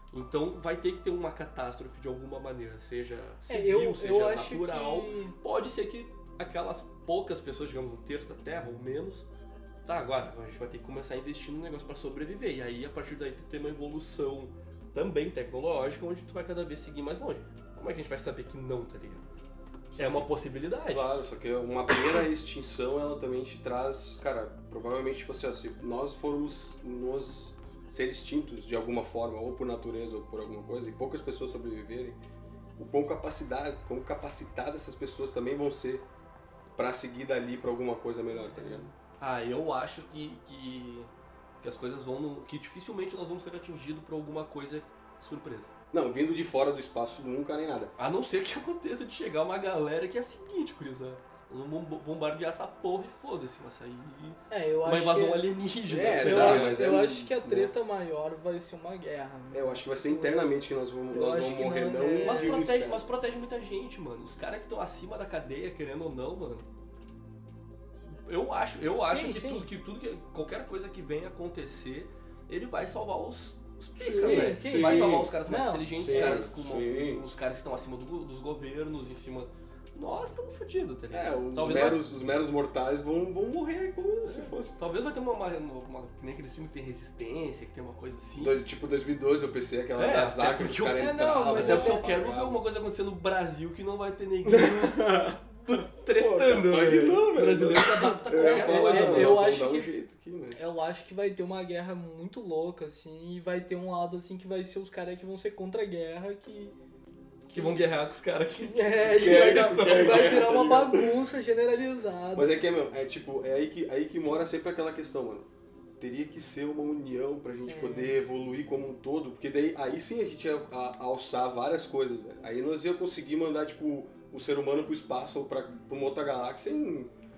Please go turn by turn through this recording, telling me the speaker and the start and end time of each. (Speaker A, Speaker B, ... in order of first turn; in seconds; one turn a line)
Speaker A: 0.1-9.2
Speaker B: 3.5-5.3
Speaker A: 9.8-19.2
Speaker C: 19.9-20.3
Speaker A: 19.9-21.1
Speaker C: 20.9-32.2
Speaker C: 32.8-36.0
Speaker C: 36.7-38.9
Speaker B: 38.5-38.9
Speaker A: 39.2-41.1
Speaker A: 41.6-45.7
Speaker C: 45.9-47.9
Speaker A: 48.0-56.8
Speaker B: 54.5-55.5
Speaker C: 55.9-57.7
Speaker B: 56.2-60.5
Speaker C: 59.5-63.0
Speaker B: 61.1-62.6
Speaker A: 62.2-66.7
Speaker A: 68.2-82.0
Speaker B: 69.0-69.7
Speaker B: 74.0-76.4
Speaker C: 74.1-75.4
Speaker C: 75.9-77.2
Speaker C: 81.1-84.8
Speaker A: 84.2-88.6
Speaker C: 88.4-92.6
Speaker A: 90.0-99.4
Speaker B: 90.9-92.1
Speaker C: 94.4-100.6
Speaker B: 98.3-99.9
Speaker B: 100.5-106.7
Speaker A: 107.5-110.5
Speaker B: 107.5-107.8
Speaker B: 108.5-112.5
Speaker C: 109.0-111.1
Speaker C: 112.3-115.5
Speaker C: 116.0-127.1
Speaker B: 117.7-118.2